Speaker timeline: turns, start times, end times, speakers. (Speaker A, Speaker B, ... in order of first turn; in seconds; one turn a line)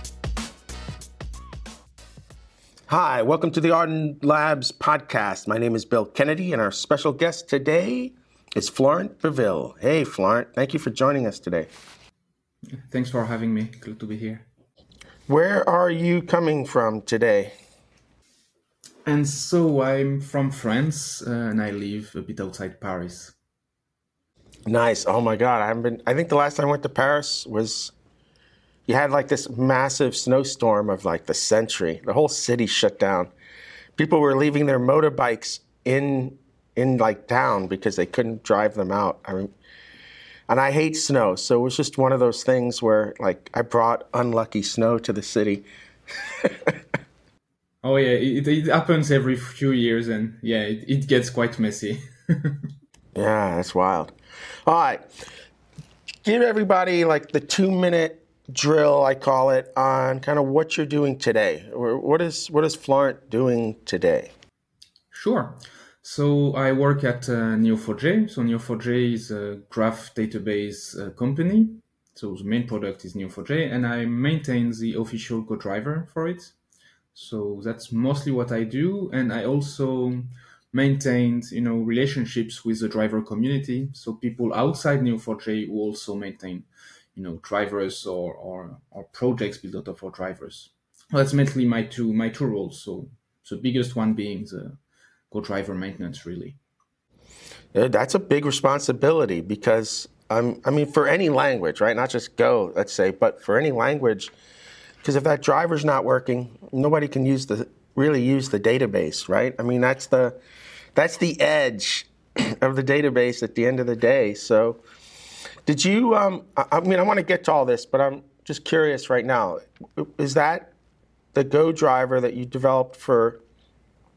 Speaker A: 2.9-11.7
Speaker B: 12.8-14.4
Speaker A: 15.3-17.5
Speaker B: 19.1-23.3
Speaker A: 24.7-27.9
Speaker A: 28.9-33.3
Speaker A: 34.0-39.5
Speaker A: 40.5-46.8
Speaker B: 47.8-52.6
Speaker A: 53.1-54.1
Speaker A: 54.6-55.1
Speaker A: 56.2-64.3
Speaker B: 65.1-76.5
Speaker B: 77.1-94.8
Speaker B: 95.3-96.6
Speaker A: 97.7-104.3
Speaker A: 105.0-110.4
Speaker A: 110.9-114.8
Speaker A: 115.6-120.7
Speaker A: 121.3-123.4